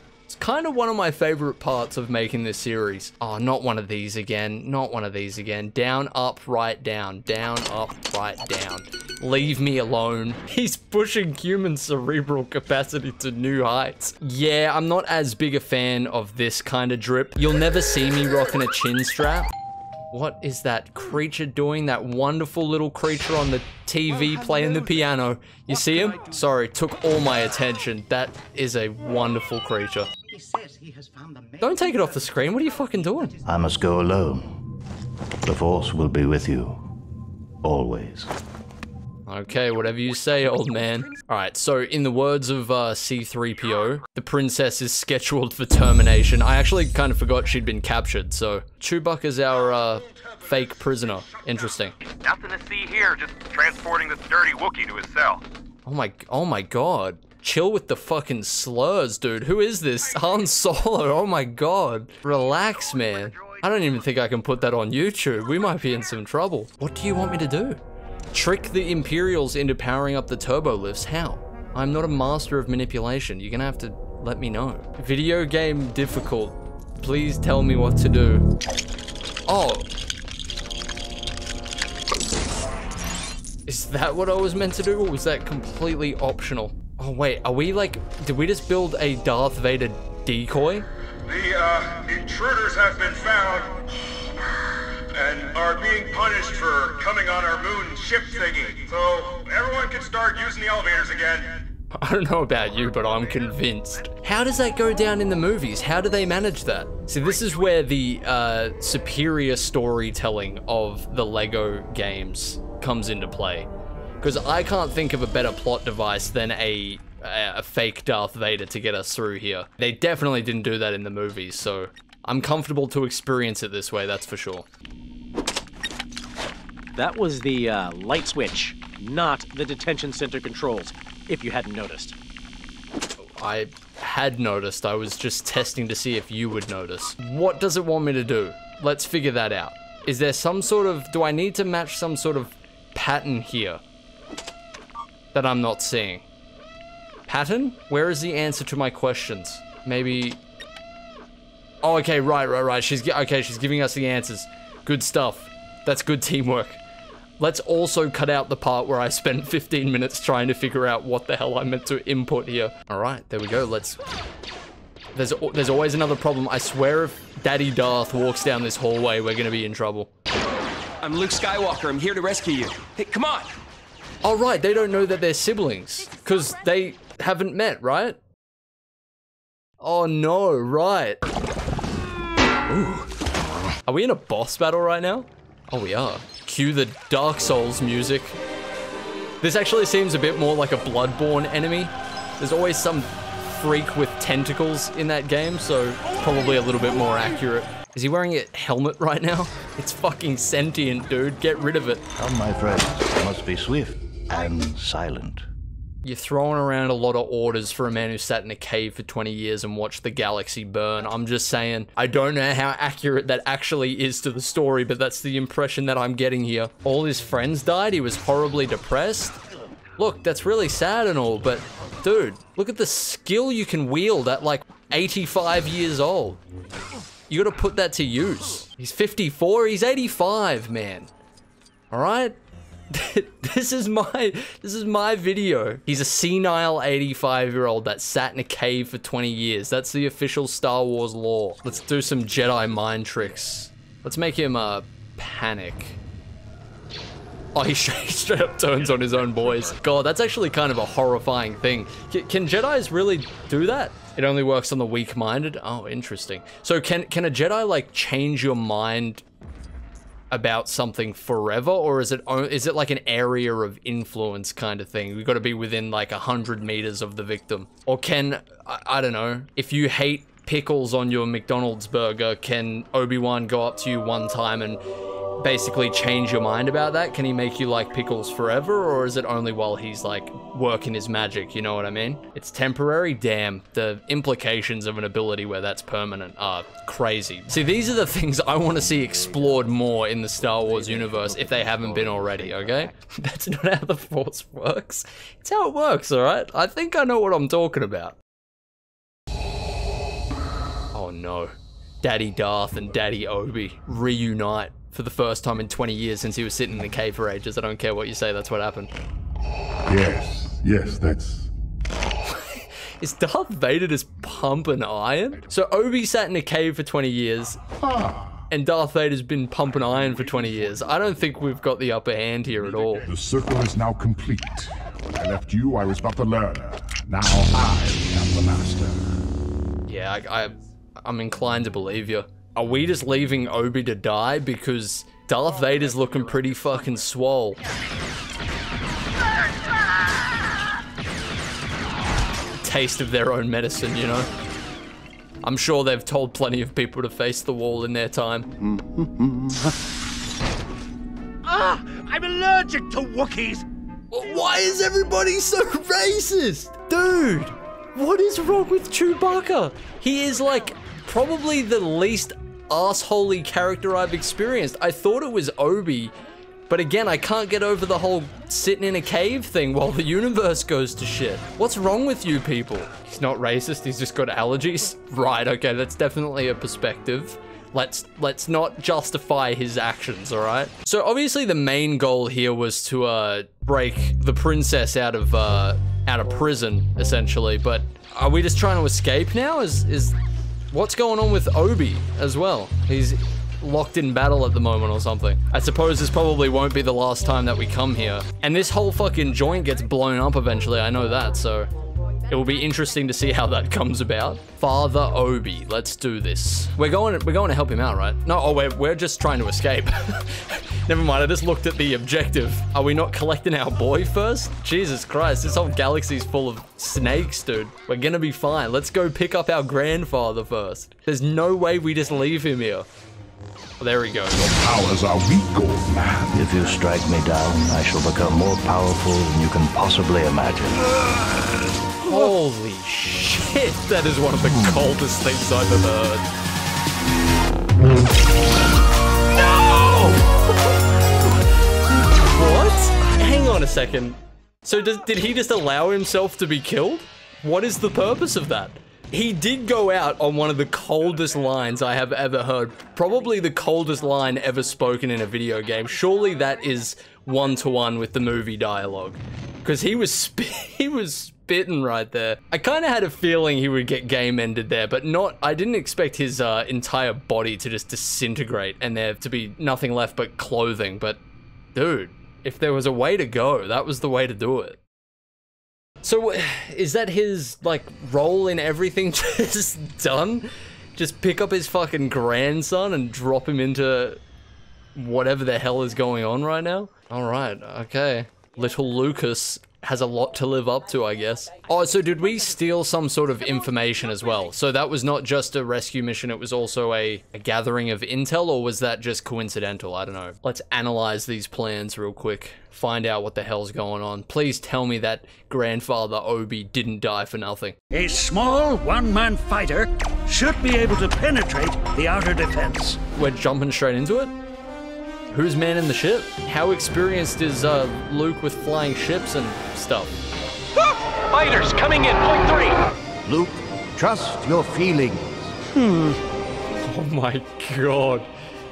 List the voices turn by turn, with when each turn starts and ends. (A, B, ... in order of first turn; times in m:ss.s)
0:00.3-0:19.5 A
0:20.1-0:30.1 A
0:30.3-0:33.8 B
0:31.6-0:33.3 A
0:33.4-0:34.5 C
0:35.4-0:36.8 C
0:37.6-0:38.3 C
0:39.3-0:52.0 A
0:52.1-0:55.4 D
0:55.9-1:07.8 A
1:02.7-1:03.6 D
1:08.3-1:18.4 A
1:19.5-1:19.9 A
1:23.7-1:30.9 A
1:31.3-1:33.8 E
1:35.2-1:41.5 E
1:41.9-1:53.7 A
1:54.2-2:04.7 A
2:07.0-2:12.2 F
2:13.4-2:23.8 A
2:25.3-2:26.3 A
2:27.3-2:30.4 A
2:31.8-2:36.8 A
2:37.4-2:44.0 A
2:45.2-2:50.1 A
2:51.0-2:53.5 G
2:54.2-2:58.2 A
2:59.8-3:01.2 A
3:02.7-3:03.1 A
3:03.8-3:08.4 A
3:09.4-3:22.0 A
3:22.2-3:25.5 C
3:26.0-3:39.4 A
3:40.0-3:46.4 A
3:47.3-3:51.1 A
3:51.9-3:52.4 A
3:52.9-4:06.0 A
4:07.6-4:19.2 A
4:20.3-4:34.8 A
4:35.4-4:58.2 A
4:48.9-4:52.9 C
5:00.9-5:08.9 A
5:09.9-5:11.5 H
5:12.2-5:17.6 A
5:17.8-5:18.4 H
5:18.5-5:23.1 A
5:23.0-5:29.1 H
5:29.9-5:37.6 A
5:42.6-5:44.3 A
5:45.4-5:48.5 A
5:48.6-5:49.7 I
5:51.4-5:53.6 I
5:54.1-6:06.1 A
6:06.7-6:30.2 A
6:30.7-6:41.7 A
6:42.3-7:02.9 A
7:03.8-7:04.5 A
7:04.5-7:06.4 H
7:06.3-7:11.0 C
7:12.0-7:16.3 A
7:19.4-7:20.7 A
7:22.0-7:51.2 A
7:51.8-7:54.8 A
7:56.0-8:04.2 A
8:05.0-8:27.8 A
8:27.9-8:33.0 I
8:33.1-8:34.3 A
8:35.3-8:40.2 A
8:41.5-8:42.1 F
8:42.2-8:42.5 D
8:43.2-8:45.6 C
8:46.8-8:48.3 A